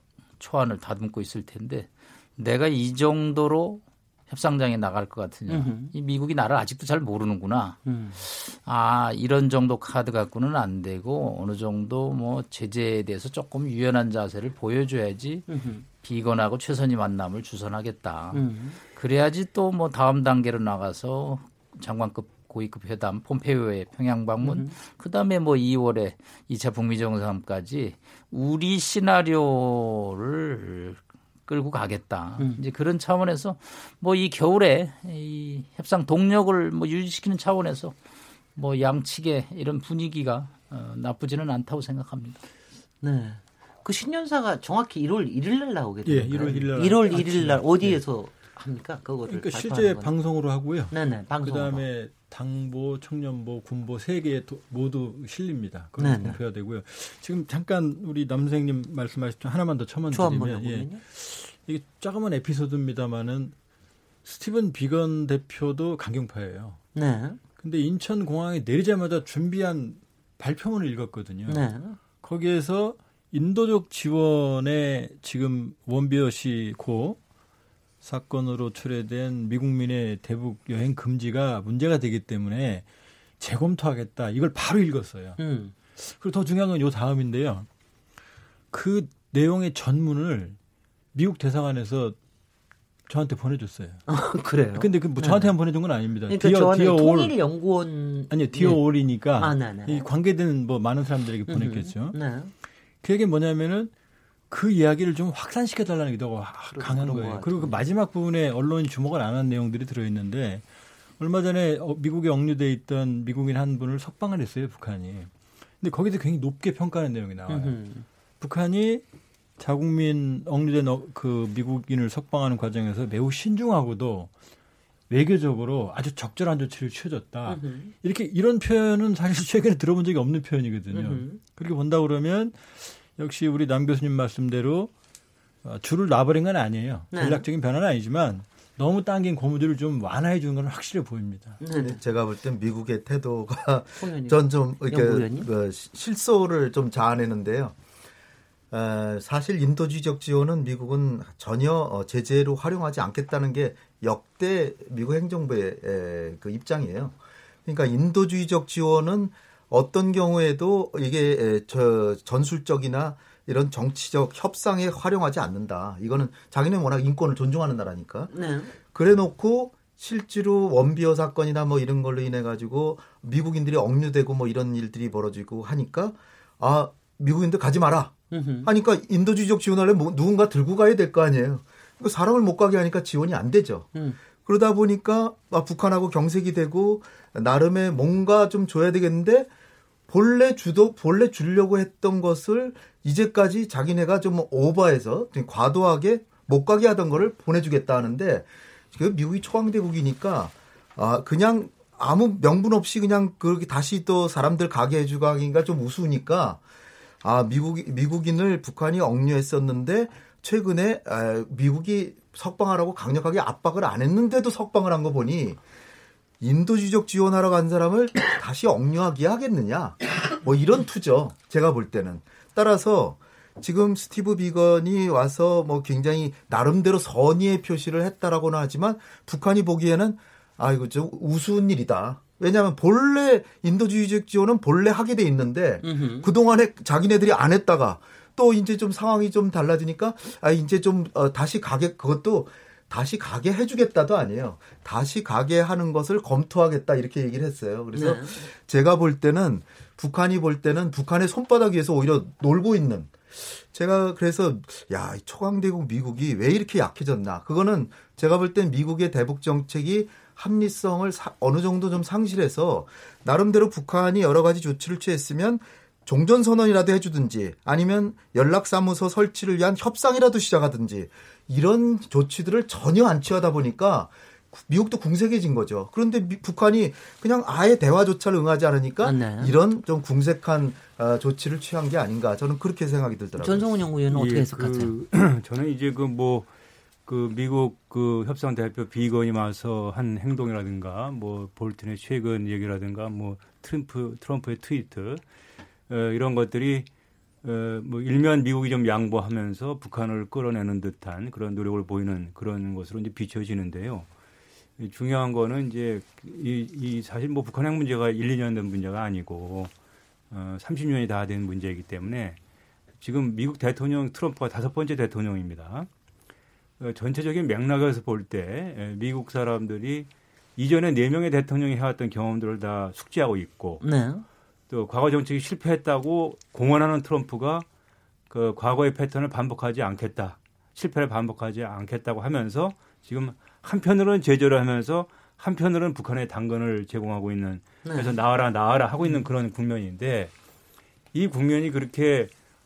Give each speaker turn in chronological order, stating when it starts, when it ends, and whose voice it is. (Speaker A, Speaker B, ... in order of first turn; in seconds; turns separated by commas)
Speaker A: 0.4-15.5, Speaker B: 5.5-5.9, Speaker B: 7.8-8.2, Speaker B: 15.5-15.8, Speaker A: 16.0-37.9, Speaker B: 18.3-18.8, Speaker B: 24.4-24.7, Speaker A: 38.5-42.4, Speaker B: 43.0-50.1, Speaker C: 46.0-48.0, Speaker C: 49.3-63.5, Speaker B: 50.9-51.8, Speaker B: 56.0-56.4, Speaker B: 60.1-61.0, Speaker C: 64.2-66.8, Speaker B: 66.9-67.4, Speaker C: 67.6-71.7, Speaker B: 71.5-72.0, Speaker C: 72.2-77.2, Speaker C: 78.0-82.8, Speaker C: 83.4-85.4, Speaker B: 85.4-85.7, Speaker C: 86.0-87.7, Speaker C: 88.7-90.6, Speaker C: 91.1-92.2, Speaker C: 93.1-94.0, Speaker B: 94.1-95.5, Speaker C: 94.7-97.3, Speaker B: 96.2-100.1, Speaker C: 98.3-102.2, Speaker B: 101.5-102.5, Speaker C: 103.0-103.9, Speaker C: 104.5-110.6, Speaker B: 106.7-107.8, Speaker C: 111.2-117.8, Speaker B: 117.5-118.0, Speaker C: 118.4-119.0, Speaker C: 119.6-124.3, Speaker C: 125.1-134.9, Speaker B: 127.5-127.9, Speaker B: 130.9-131.4, Speaker C: 135.6-141.6, Speaker B: 137.1-137.4, Speaker B: 141.6-142.0, Speaker D: 141.7-147.8, Speaker B: 144.0-145.5, Speaker D: 148.7-168.3, Speaker B: 168.3-168.7, Speaker D: 168.9-183.9, Speaker B: 178.3-178.7, Speaker B: 183.9-184.2, Speaker D: 184.4-189.5, Speaker D: 190.1-206.6, Speaker D: 207.2-215.6, Speaker D: 216.4-283.6, Speaker B: 235.8-236.3, Speaker B: 247.9-248.4, Speaker B: 279.0-279.5, Speaker B: 283.4-284.9, Speaker E: 284.1-286.5, Speaker E: 287.1-295.2, Speaker E: 295.9-296.9, Speaker E: 297.4-304.1, Speaker E: 304.8-309.7, Speaker E: 310.3-312.4, Speaker E: 313.0-315.9, Speaker E: 316.8-323.8, Speaker B: 323.8-324.2, Speaker E: 324.7-327.6, Speaker E: 328.3-340.3, Speaker B: 337.8-338.2, Speaker E: 341.1-342.3